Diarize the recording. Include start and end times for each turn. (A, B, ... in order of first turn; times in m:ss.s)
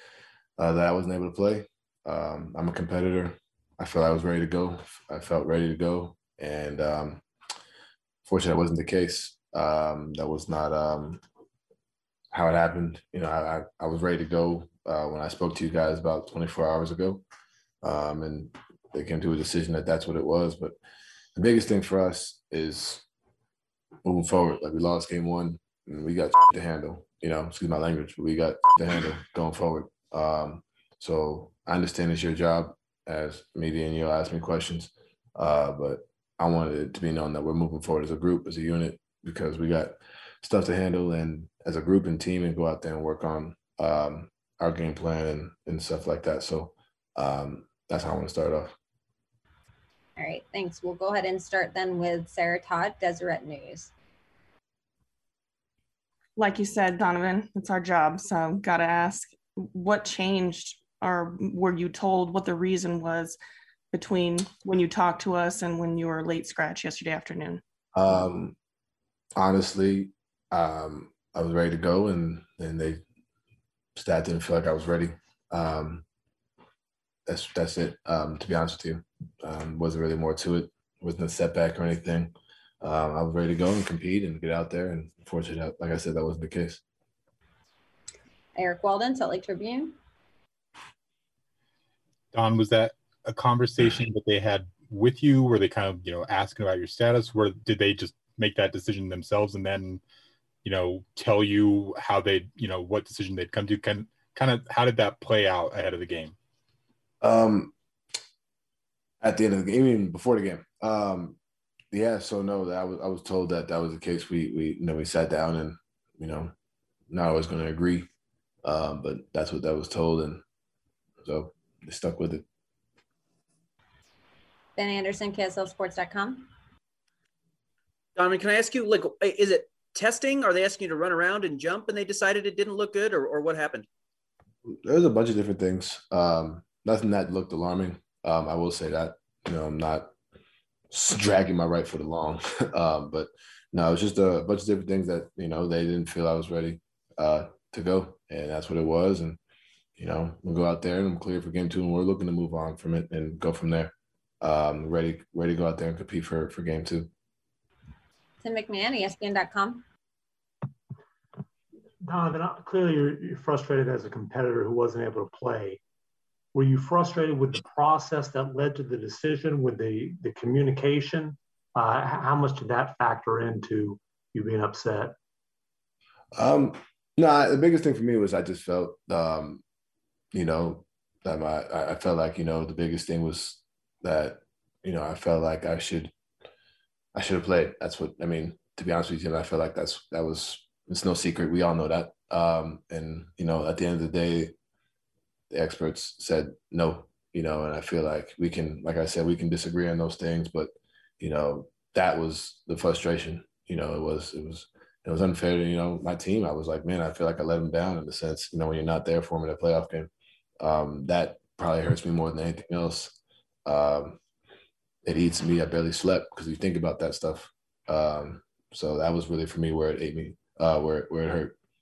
0:00.6-0:07.2 A
0:08.2-0:11.2 A
0:12.3-0:17.2 A
0:17.8-0:20.8 A
0:21.4-0:23.0 A
0:24.0-0:48.8 A
0:50.2-0:53.9 B
0:56.4-1:03.4 C
1:03.9-1:07.6 C
1:08.0-1:08.6 A
1:09.4-1:13.0 A
1:14.0-1:16.0 A
1:17.3-1:26.8 A
1:28.6-1:30.0 B
1:32.3-1:40.0 D
1:40.6-1:46.4 D
1:47.2-1:47.7 A
1:49.2-1:51.4 A
1:51.9-1:56.5 A
1:57.1-1:58.1 A
1:58.6-2:00.4 A
2:01.2-2:02.4 A
2:04.8-2:06.5 B
2:08.2-2:13.9 E
2:14.7-2:20.1 A
2:20.9-2:29.4 A
2:30.0-2:37.1 A
2:38.4-2:39.8 B
2:42.0-2:45.8 F
2:46.5-2:55.2 F
2:56.3-2:59.6 A
3:00.3-3:06.1 A
3:07.2-3:14.5 A
3:15.5-3:34.2 A
3:35.0-3:41.6 A